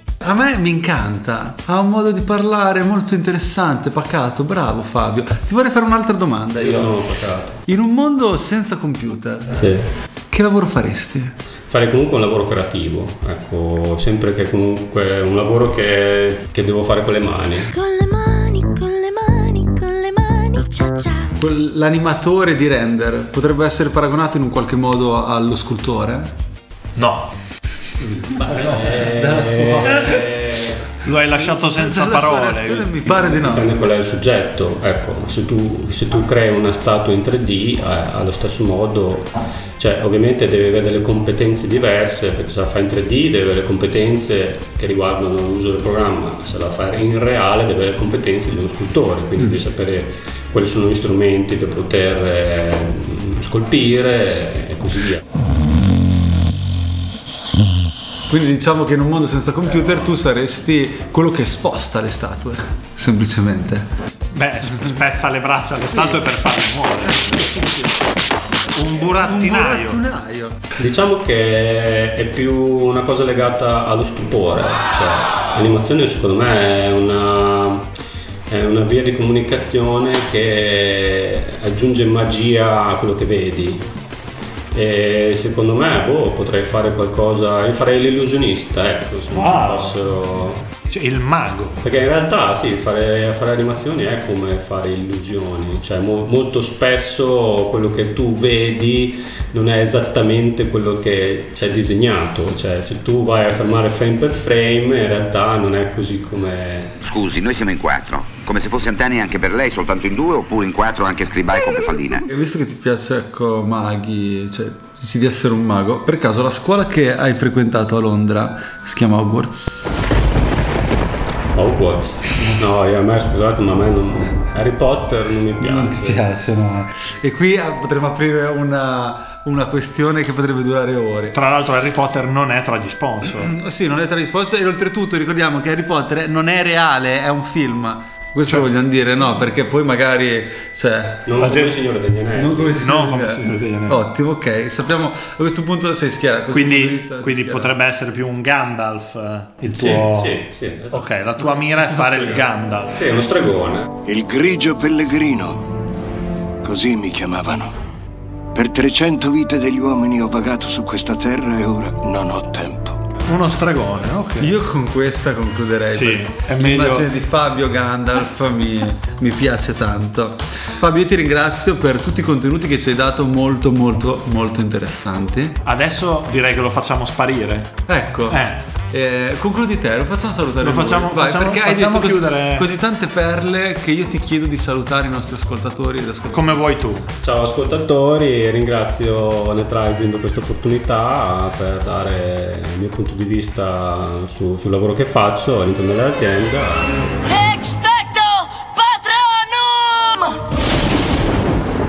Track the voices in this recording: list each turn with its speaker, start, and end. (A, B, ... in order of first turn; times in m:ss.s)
0:00.2-0:09.8 A
0:06.6-0:07.6 B
0:09.5-0:09.9 B
0:10.3-0:11.3 A
0:11.7-0:17.7 B
0:17.8-0:21.3 C
0:21.4-0:26.3 A
0:27.0-0:27.3 D
0:28.1-0:30.3 A
0:28.4-0:30.8 B
0:31.0-0:33.1 D
0:31.4-0:33.7 A
0:33.1-0:55.2 B
0:58.3-1:03.9 A
1:04.3-1:07.9 D
1:05.8-1:06.2 A
1:08.7-1:10.0 D
1:09.0-1:10.6 A
1:10.8-1:17.9 B
1:18.5-1:23.9 B
1:24.7-1:30.7 B
1:29.3-1:30.1 D
1:30.9-1:31.8 D
1:31.8-1:47.0 B
1:47.0-1:52.2 E
1:52.3-2:00.0 A
2:01.5-2:06.2 B
2:05.6-2:11.4 A
2:11.3-2:13.5 D
2:13.4-2:21.7 A
2:21.3-2:22.8 B
2:22.3-2:27.7 A
2:22.8-2:24.0 D
2:26.5-2:33.0 D
2:29.7-2:33.9 B
2:34.0-2:35.7 F
2:36.6-2:37.7 F
2:38.5-2:43.0 F
2:43.3-2:44.5 D
2:44.4-2:55.6 A
2:45.9-2:47.1 D
2:55.6-2:57.7 D
2:57.9-3:06.6 A
2:58.3-2:58.6 D
3:00.6-3:02.7 D
3:06.3-3:07.1 D
3:07.2-3:17.4 B
3:17.4-3:20.3 C